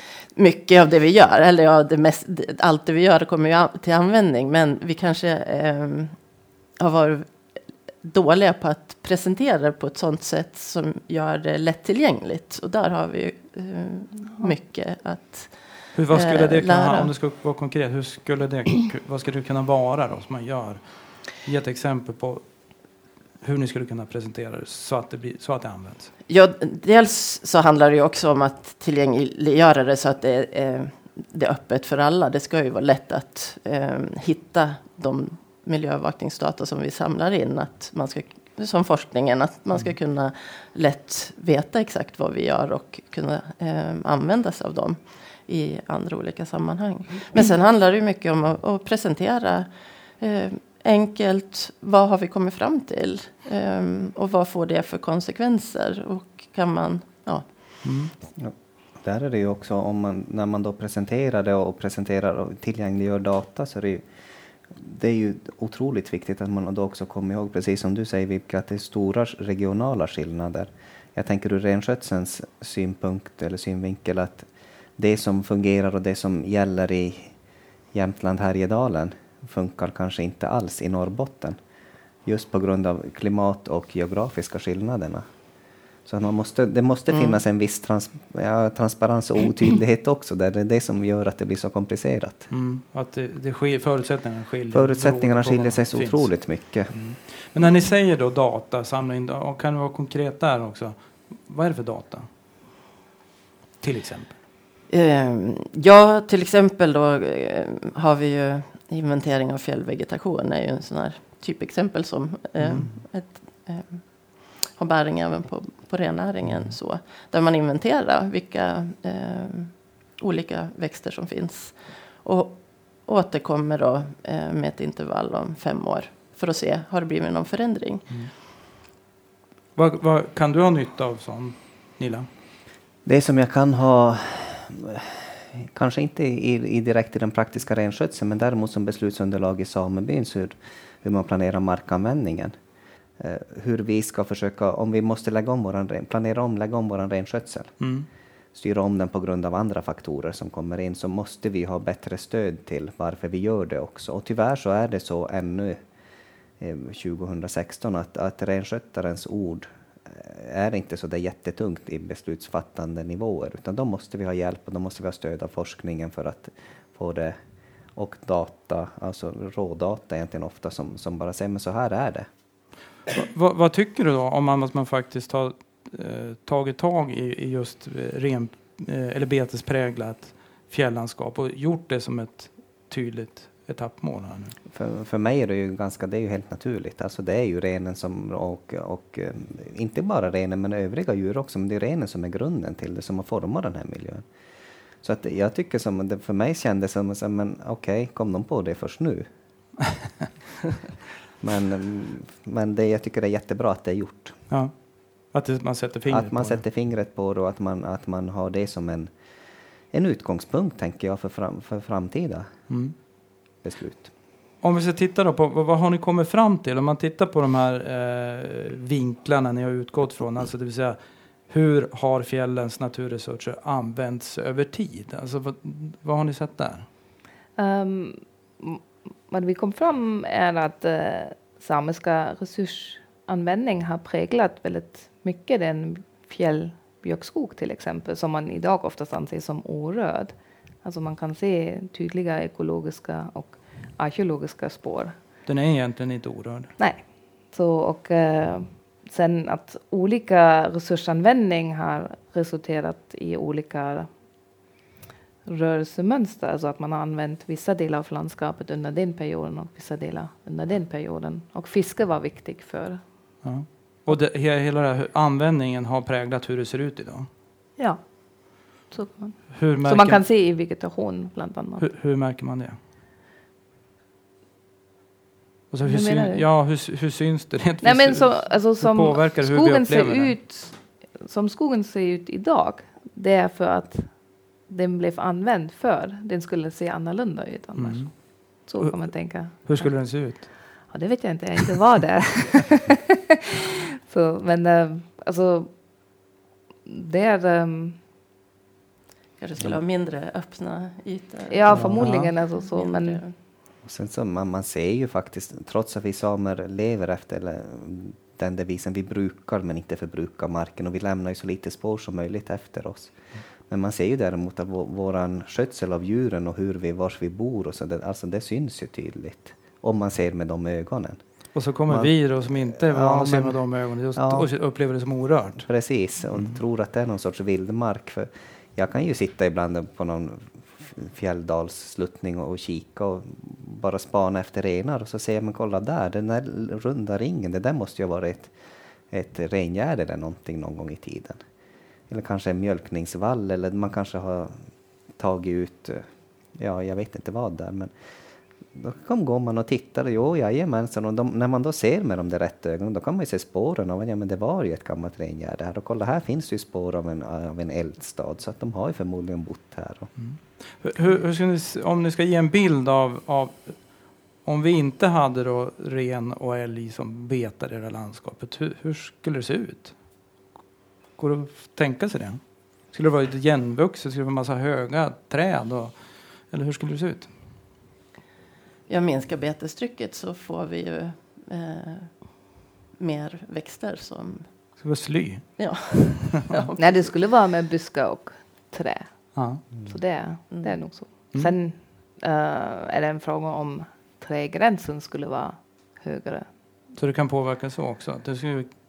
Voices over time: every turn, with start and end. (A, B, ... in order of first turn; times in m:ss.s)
0:00.4-0:17.1 A
0:15.9-0:26.1 B
0:26.3-0:57.9 A
0:57.8-0:58.1 B
0:58.4-1:04.1 C
1:04.6-1:17.3 C
1:17.9-1:21.6 C
1:22.2-1:25.2 C
1:26.0-1:32.5 C
1:27.1-1:27.4 A
1:32.5-1:42.3 B
1:34.7-1:36.9 C
1:43.8-1:44.4 B
1:44.9-2:08.2 A
1:52.6-1:52.9 B
2:09.8-2:12.3 B
2:13.0-2:22.6 C
2:23.2-2:27.8 C
2:27.8-2:28.1 B
2:28.5-2:35.8 C
2:36.6-2:47.4 C
2:47.9-2:52.3 C
2:53.1-3:04.6 B
3:04.7-3:14.2 C
3:15.0-3:19.3 C
3:21.4-3:24.4 C
3:24.5-3:26.6 B
3:26.1-3:29.1 C
3:29.9-3:33.0 C
3:32.7-3:32.9 B
3:33.6-3:34.1 C
3:34.6-3:46.9 B
3:47.6-4:05.2 D
4:05.4-4:06.7 B
4:06.8-4:14.1 D
4:15.4-4:23.4 D
4:23.4-4:27.3 B
4:27.8-4:31.9 D
4:29.5-4:30.2 B
4:31.8-4:32.8 B
4:35.7-4:40.4 B
4:35.8-4:36.5 D
4:37.8-4:53.0 D
4:47.8-4:50.9 B
4:54.1-4:56.1 D
4:56.8-4:58.0 D
4:59.4-5:03.3 A
5:01.5-5:03.2 D
5:01.7-5:02.3 B
5:03.8-5:24.5 C
5:21.5-5:25.7 B
5:25.6-5:38.5 C
5:26.3-5:26.6 B
5:39.1-5:41.4 C
5:42.1-5:47.9 C
5:48.7-6:00.1 C
6:00.2-6:10.0 B
6:11.2-6:17.3 B
6:18.9-6:24.8 A
6:24.8-6:26.3 B
6:25.6-6:27.2 A
6:26.8-6:36.5 D
6:29.3-6:29.6 B
6:30.5-6:30.8 A
6:37.0-6:38.7 B